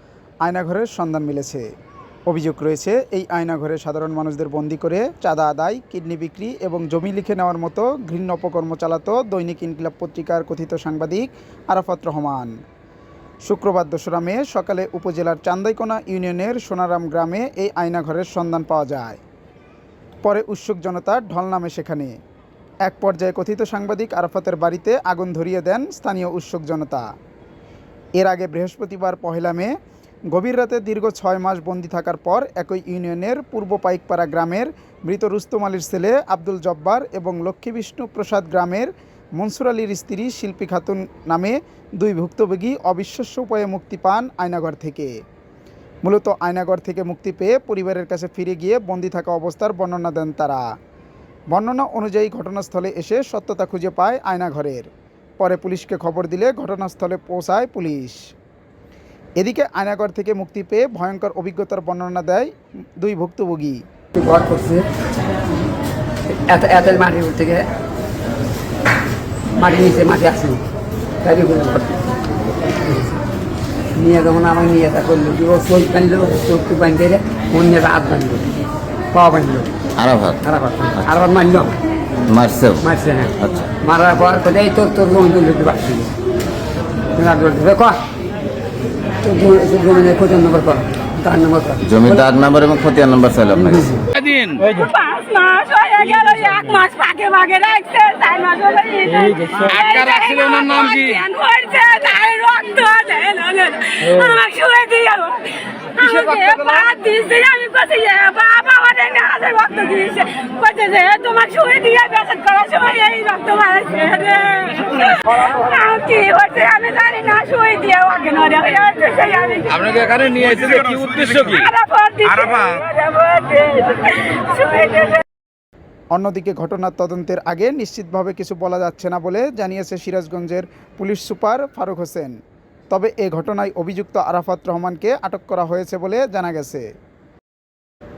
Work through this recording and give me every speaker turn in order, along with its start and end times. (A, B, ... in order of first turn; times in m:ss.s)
0:00.4-0:01.7 A
0:02.3-0:12.6 A
0:13.4-0:19.2 A
0:20.2-0:22.2 A
0:22.8-0:27.1 A
0:28.2-0:29.7 A
0:30.3-0:45.1 A
0:46.0-0:50.6 A
0:51.5-0:54.9 A
0:55.4-0:58.2 A
0:59.4-1:03.8 A
1:04.2-1:04.9 B
1:06.3-1:07.7 B
1:09.5-1:10.6 B
1:11.2-1:12.0 B
1:12.8-1:13.1 B
1:13.9-1:18.5 B
1:19.1-1:19.7 B
1:20.0-1:20.4 C
1:20.4-1:21.8 B
1:22.3-1:22.9 C
1:22.8-1:26.1 B
1:23.4-1:23.7 C
1:27.1-1:28.0 B
1:29.2-1:31.9 B
1:31.8-1:34.0 C
1:33.6-1:34.1 B
1:34.2-1:34.7 D
1:34.7-1:59.9 E
1:39.7-1:41.2 D
1:59.7-2:01.7 D
2:01.5-2:05.2 E
2:06.1-2:12.4 A
2:12.9-2:16.9 A